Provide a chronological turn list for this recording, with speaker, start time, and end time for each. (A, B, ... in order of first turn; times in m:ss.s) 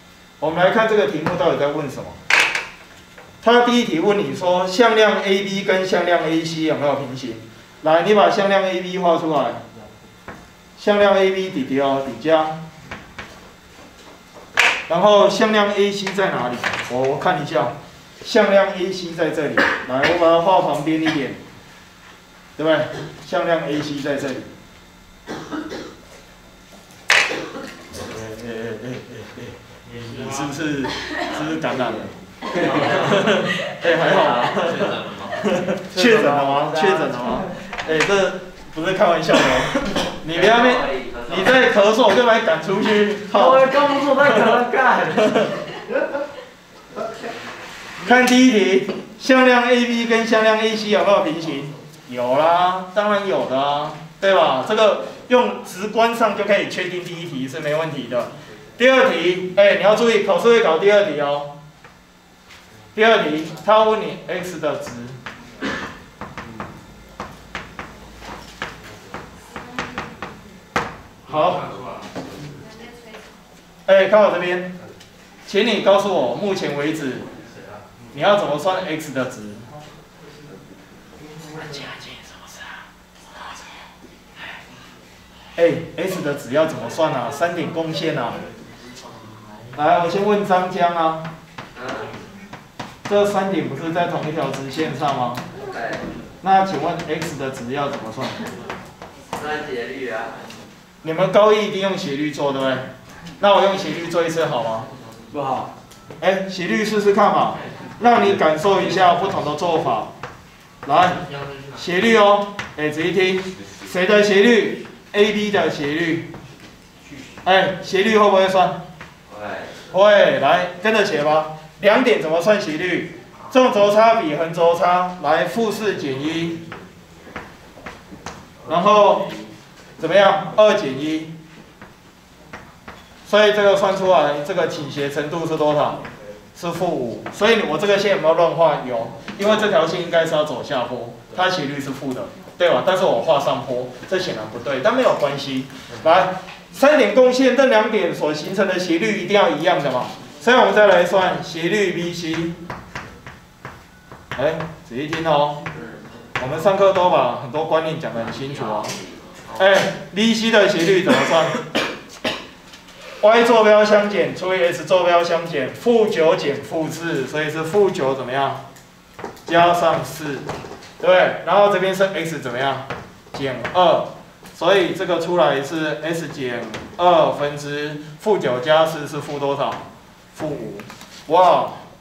0:00.4-0:02.2 A
0:03.4-0:09.6 A
0:10.8-0:12.6 A
0:14.9-0:21.4 A
0:22.6-0:24.5 A
0:28.1-0:29.1 A
0:30.1-0:32.1 A
0:32.5-0:33.3 B
0:32.6-0:43.7 A
0:34.1-0:35.3 C
0:35.9-0:37.5 B
0:40.3-0:41.5 C
0:43.3-0:45.5 B
0:48.0-1:01.5 A
1:02.9-1:05.2 A
1:11.2-1:11.7 A
1:13.8-1:14.7 A
1:15.4-1:17.3 A
1:18.1-1:19.6 A
1:21.6-1:22.3 B
1:25.6-1:28.4 A
1:29.7-1:31.3 A
1:31.8-1:32.1 C
1:33.0-1:35.4 A
1:35.7-1:36.0 C
1:36.4-1:38.4 A
1:39.4-1:40.4 C
1:41.0-1:44.9 A
1:45.3-1:45.7 B
1:46.2-1:50.1 A
1:50.8-1:56.3 A
1:57.4-1:58.8 A
1:59.3-1:59.7 C
1:59.9-2:06.6 A
2:08.6-2:09.3 A
2:10.0-2:11.3 A
2:13.2-2:16.0 A
2:16.5-2:32.6 A
2:34.3-2:35.6 A
2:36.4-2:39.0 A
2:39.5-2:41.6 A
2:43.2-2:48.6 A
2:49.4-2:50.5 A
2:51.0-3:01.9 A